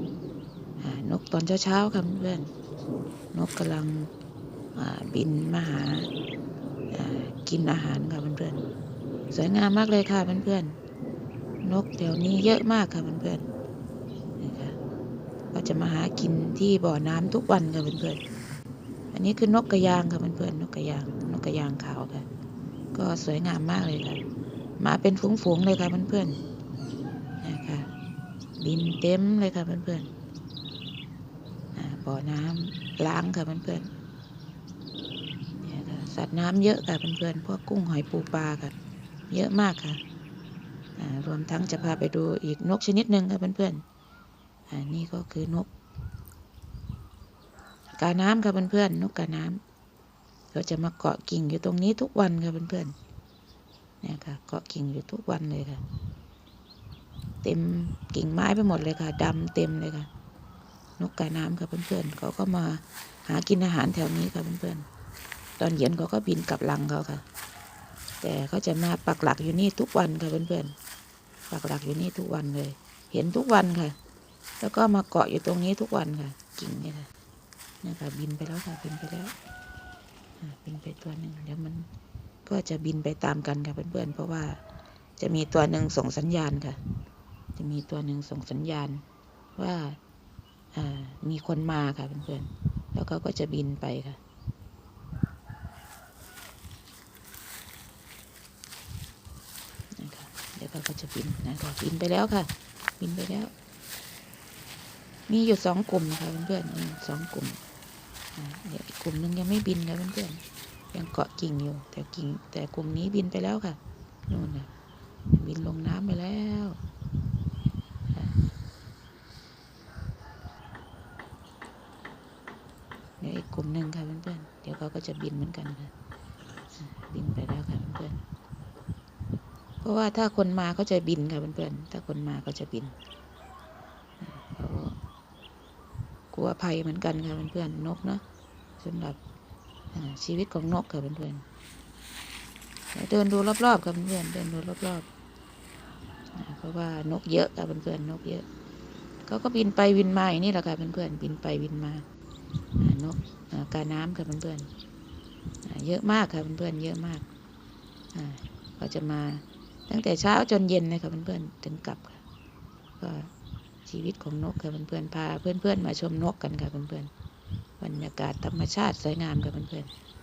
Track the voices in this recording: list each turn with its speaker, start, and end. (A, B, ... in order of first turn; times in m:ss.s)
0:00.8-0:02.5 A
0:03.3-0:04.1 A
0:04.8-0:06.1 A
0:06.9-0:08.6 A
0:09.3-0:10.8 A
0:11.6-0:13.5 A
0:14.4-0:14.8 A
0:15.5-0:18.2 A
0:19.1-0:22.3 A
0:22.9-0:24.2 A
0:24.8-0:26.4 A
0:27.4-0:27.9 A
0:28.6-0:30.1 A
0:31.8-0:33.9 A
0:35.6-0:38.8 A
0:39.3-0:40.0 A
0:41.0-0:43.8 A
0:44.7-0:45.7 A
0:48.0-0:49.6 A
0:50.5-0:52.9 A
0:54.0-0:55.8 A
0:57.4-1:00.1 A
1:01.0-1:04.9 A
1:05.6-1:07.2 A
1:08.2-1:10.7 A
1:11.5-1:14.0 A
1:14.6-1:17.1 A
1:17.8-1:19.3 A
1:20.4-1:21.9 A
1:22.5-1:24.6 A
1:25.2-1:26.8 A
1:27.6-1:29.0 A
1:29.6-1:30.0 A
1:30.7-1:34.2 A
1:40.0-1:43.5 A
1:45.3-1:47.6 A
1:48.4-1:50.4 A
1:50.9-1:54.7 A
1:55.3-1:56.8 A
2:03.2-2:05.9 A
2:06.8-2:08.2 A
2:09.8-2:12.9 A
2:14.2-2:14.9 A
2:16.3-2:18.2 A
2:18.8-2:19.2 A
2:19.9-2:21.4 A
2:22.9-2:25.1 A
2:26.4-2:28.4 A
2:29.2-2:32.0 A
2:32.8-2:34.7 A
2:35.6-2:37.3 A
2:38.1-2:42.2 A
2:43.0-2:43.3 A
2:43.9-2:47.1 A
2:47.8-2:49.9 A